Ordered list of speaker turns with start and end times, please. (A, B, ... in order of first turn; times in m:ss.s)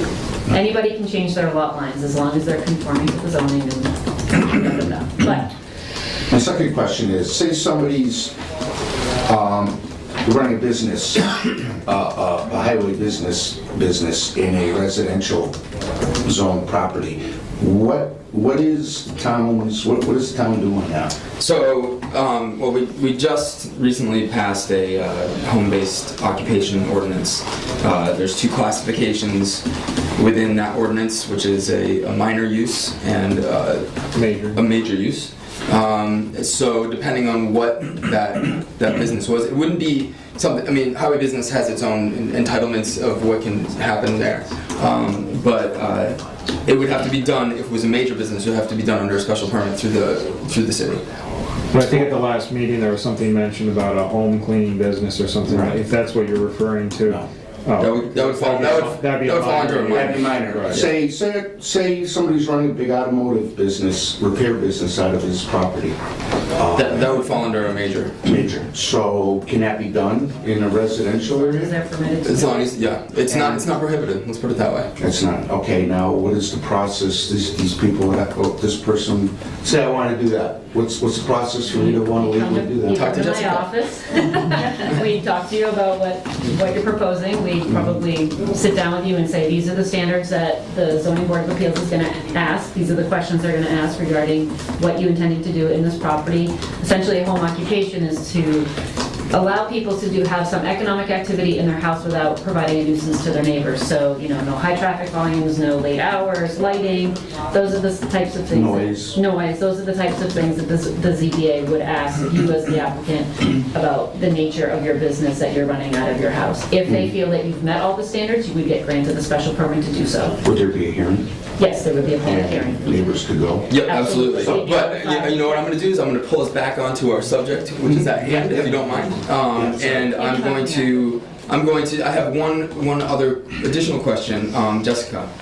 0:00.5-0:05.5 A
0:06.3-0:08.3 B
0:09.2-0:15.6 B
0:16.2-0:21.1 B
0:21.4-0:29.6 C
0:30.2-0:33.9 C
0:34.1-0:34.6 D
0:34.5-0:51.0 C
0:51.7-1:00.8 D
0:57.8-1:00.9 C
0:59.9-1:06.0 B
1:06.5-1:07.2 B
1:06.7-1:08.2 C
1:08.2-1:11.7 B
1:11.3-1:12.8 A
1:12.2-1:14.9 C
1:13.3-1:13.6 B
1:15.0-1:23.0 B
1:21.7-1:38.7 A
1:22.9-1:23.6 C
1:39.3-2:00.4 A
1:48.5-1:49.2 B
2:00.4-2:01.3 B
2:01.6-2:03.1 A
2:02.2-2:03.7 B
2:03.7-2:15.3 C
2:03.8-2:05.7 A
2:08.0-2:09.0 B
2:09.5-2:10.0 B
2:10.0-2:11.1 A